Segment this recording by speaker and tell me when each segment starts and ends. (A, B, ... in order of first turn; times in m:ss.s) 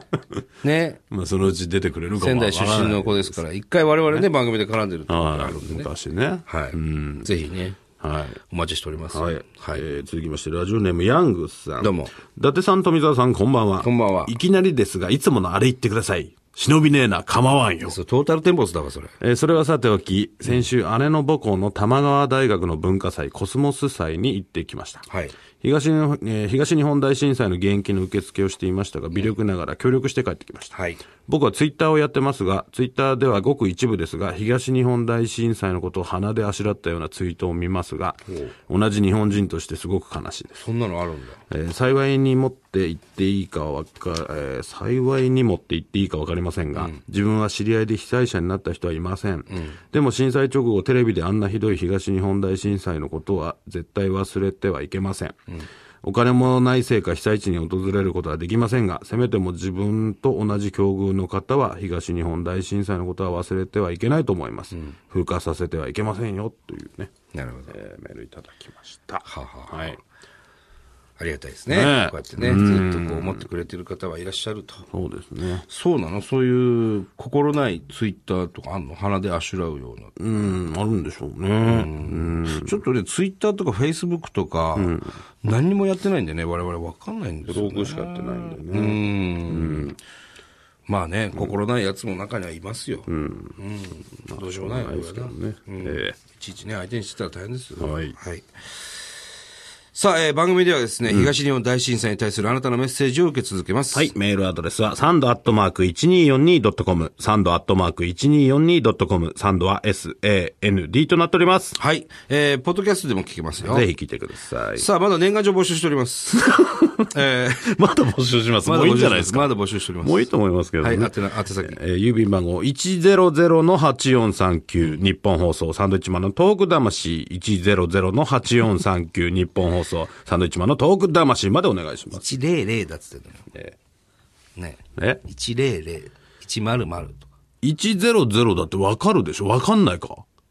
0:00.6-0:01.0 A
0:01.1-0:03.4 B
0:02.2-0:05.9 A
0:05.1-0:07.3 B
0:06.5-0:07.8 A
0:08.0-0:08.4 B
0:08.5-0:09.8 A
0:09.1-0:18.0 B
0:11.8-0:12.1 A
0:13.8-0:14.3 A
0:17.8-0:19.1 A
0:19.2-0:25.0 B
0:25.1-0:25.3 A
0:25.6-0:30.7 B
0:30.7-0:31.0 A
0:31.2-0:40.6 B
0:40.5-0:41.4 A
0:41.5-0:55.4 B
0:46.8-0:47.0 A
0:49.5-0:49.8 A
0:56.0-1:07.1 B
1:07.3-1:07.7 A
1:07.7-1:10.0 B
1:09.2-1:10.0 A
1:11.2-1:14.9 A
1:11.7-1:13.5 B
1:14.9-1:15.6 B
1:15.6-1:20.1 A
1:20.2-1:22.8 B
1:21.6-1:30.0 A
1:24.8-1:25.1 B
1:27.4-1:30.0 B
1:30.9-1:39.0 A
1:33.1-1:33.6 B
1:34.2-1:36.2 B
1:37.8-1:38.2 B
1:39.9-1:44.1 A
1:41.1-1:41.3 B
1:43.9-1:51.8 B
1:51.8-1:53.9 A
1:53.6-1:54.8 B
1:54.7-1:57.7 A
1:56.4-2:12.2 B
1:58.6-2:01.8 A
2:12.1-2:13.5 A
2:14.6-2:17.3 A
2:15.0-2:15.2 B
2:17.6-2:20.2 B